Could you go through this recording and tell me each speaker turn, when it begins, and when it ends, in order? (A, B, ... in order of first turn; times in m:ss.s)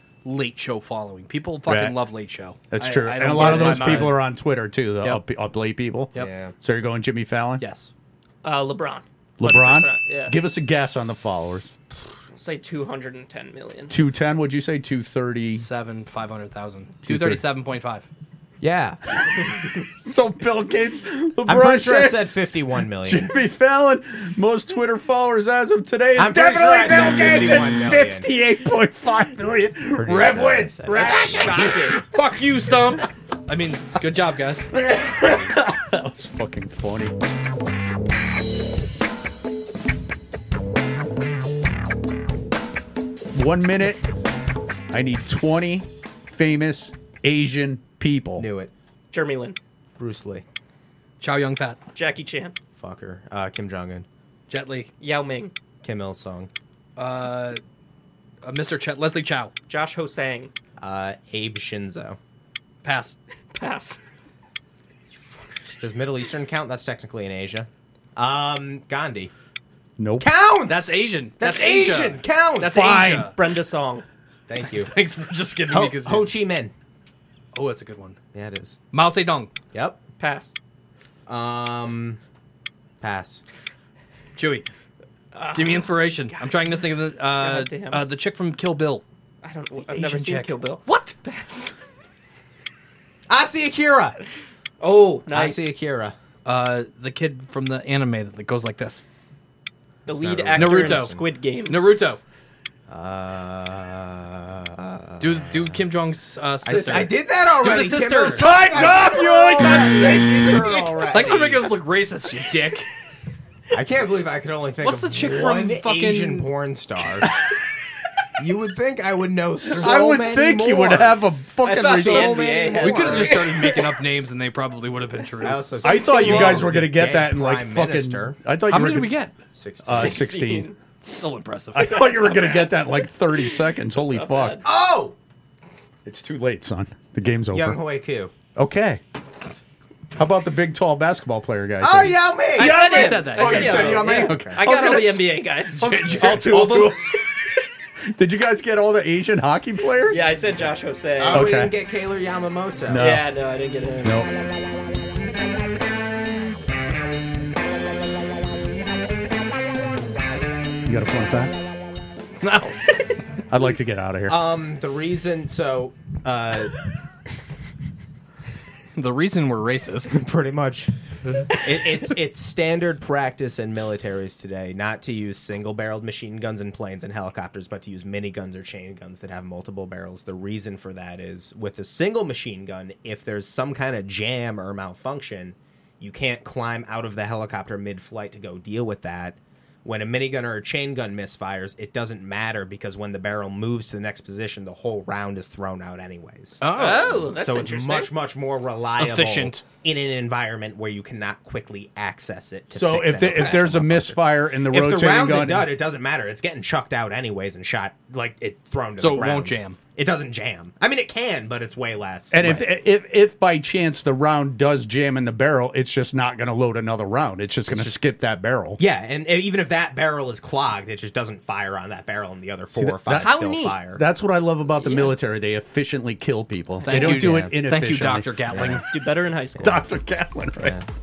0:00.2-0:04.2 A
0:01.6-0:01.9 B
0:02.7-0:07.6 B
0:03.3-0:04.1 C
0:06.1-0:06.5 D
0:07.6-0:07.9 A
0:08.4-0:10.4 C
0:09.4-0:11.7 B
0:12.3-0:13.9 C
0:13.9-0:15.6 B
0:15.6-0:18.0 A
0:17.0-0:17.4 B
0:18.6-0:19.8 D
0:19.3-0:22.3 B
0:21.4-0:23.3 D
0:23.0-0:31.9 B
0:26.2-0:28.2 D
0:29.9-0:31.7 D
0:30.9-0:32.0 C
0:31.9-0:34.7 A
0:34.7-0:37.2 B
0:43.3-0:44.0 B
0:44.9-0:48.5 B
0:48.4-0:48.7 D
0:49.1-0:49.6 C
0:50.0-0:50.4 D
0:51.2-0:51.8 A
0:51.9-0:52.5 C
0:52.8-0:54.1 D
0:54.5-0:54.9 A
0:55.0-0:55.5 C
0:55.8-0:56.5 D
0:57.0-0:57.6 A
0:58.4-0:59.5 A
0:59.7-1:00.5 C
1:00.8-1:02.2 D
1:02.8-1:03.2 A
1:03.5-1:04.0 C
1:05.7-1:09.3 D
1:10.0-1:10.3 B
1:10.2-1:12.8 D
1:10.6-1:13.3 A
1:12.7-1:13.3 B
1:13.0-1:14.0 C
1:14.5-1:14.9 D
1:14.6-1:16.3 A
1:15.7-1:16.7 D
1:17.5-1:18.2 A
1:18.3-1:18.8 D
1:18.9-1:19.5 A
1:19.7-1:20.0 D
1:20.2-1:20.5 C
1:21.2-1:22.2 D
1:23.0-1:23.4 D
1:24.4-1:24.6 A
1:25.3-1:25.9 C
1:25.5-1:29.0 A
1:27.4-1:28.0 C
1:29.4-1:31.7 C
1:29.8-1:31.1 A
1:33.3-1:34.2 D
1:34.8-1:35.7 C
1:35.3-1:36.2 D
1:36.4-1:39.0 A
1:40.0-1:41.9 C
1:40.1-1:41.2 D
1:40.5-1:42.2 A
1:42.9-1:45.8 D
1:45.2-1:49.6 A
1:46.6-1:51.6 D
1:48.2-1:50.7 B
1:50.4-1:52.9 A
1:53.7-1:57.3 D
1:54.8-1:56.5 A
1:58.4-2:01.2 D
1:59.7-2:02.7 B
2:01.6-2:03.7 C
2:01.8-2:03.5 D
2:02.6-2:05.8 A
2:05.4-2:08.4 D
2:05.8-2:09.2 B
2:05.8-2:06.7 C
2:08.7-2:09.3 A
2:09.5-2:10.2 D
2:09.8-2:10.7 B
2:09.9-2:10.8 C
2:11.0-2:12.1 A
2:11.7-2:14.6 B
2:11.8-2:12.7 C
2:13.9-2:14.6 C
2:14.6-2:15.1 D
2:16.0-2:17.8 B
2:17.5-2:18.3 D
2:18.5-2:19.0 B
2:20.2-2:27.0 B
2:21.8-2:24.6 D
2:22.6-2:23.9 A
2:22.6-2:27.1 C
2:25.8-2:26.9 A
2:28.1-2:30.2 B
2:30.1-2:31.5 C
2:31.2-2:33.0 D
2:31.3-2:31.7 B
2:32.9-2:33.3 B
2:33.0-2:34.1 C
2:34.0-2:34.3 B
2:40.8-2:41.5 B
2:42.4-2:42.8 A
2:43.5-2:44.4 B
2:44.3-2:46.7 D
2:48.9-2:50.1 A
2:50.1-3:32.6 D
3:16.6-3:17.3 A
3:16.7-3:18.1 C
3:19.0-3:19.6 A
3:22.7-3:25.7 B
3:29.0-3:29.8 A
3:32.3-3:38.8 B
3:37.7-3:38.0 D
3:38.8-3:44.0 D
3:42.7-3:48.3 B
3:43.2-3:43.8 C
3:44.8-3:45.1 D
3:46.8-3:48.9 A
3:46.9-3:47.5 D
3:48.5-3:48.8 D
3:48.9-3:49.8 C
3:49.6-3:50.8 B
3:50.6-3:50.8 D